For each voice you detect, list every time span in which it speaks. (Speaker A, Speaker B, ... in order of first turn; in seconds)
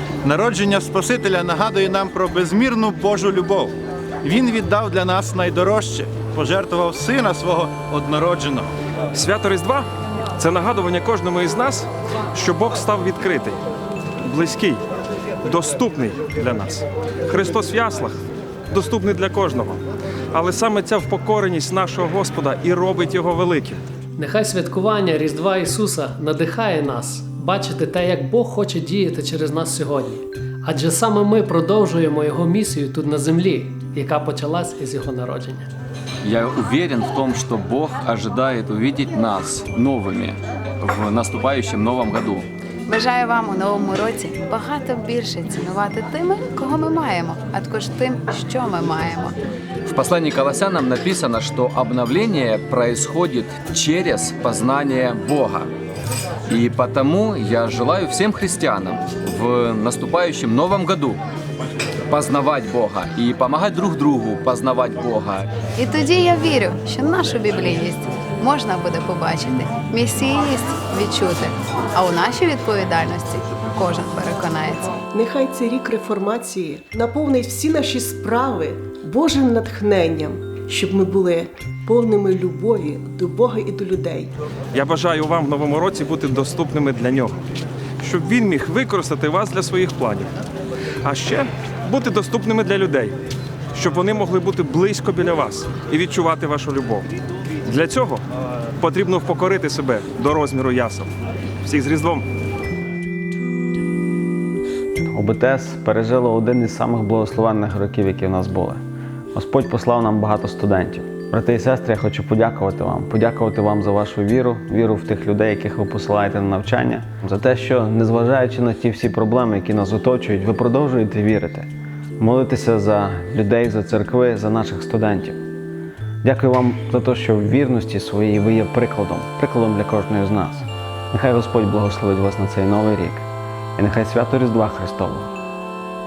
Speaker A: 0.2-3.7, 4.2-8.7
Speaker B: 9.1-9.8, 10.4-13.6, 14.2-14.8, 15.4-18.2, 18.7-19.8, 20.3-23.8, 84.7-87.4, 88.0-90.3, 91.0-93.1, 93.7-97.1, 97.6-98.2, 98.8-101.1, 101.6-102.2
Speaker C: 24.2-35.7
Speaker D: 36.2-42.5, 49.9-55.7, 56.5-61.2, 62.1-65.5
Speaker E: 42.9-49.4, 65.8-74.9
Speaker F: 75.1-84.3
Speaker G: 105.1-108.8, 109.3-125.4, 126.2-135.3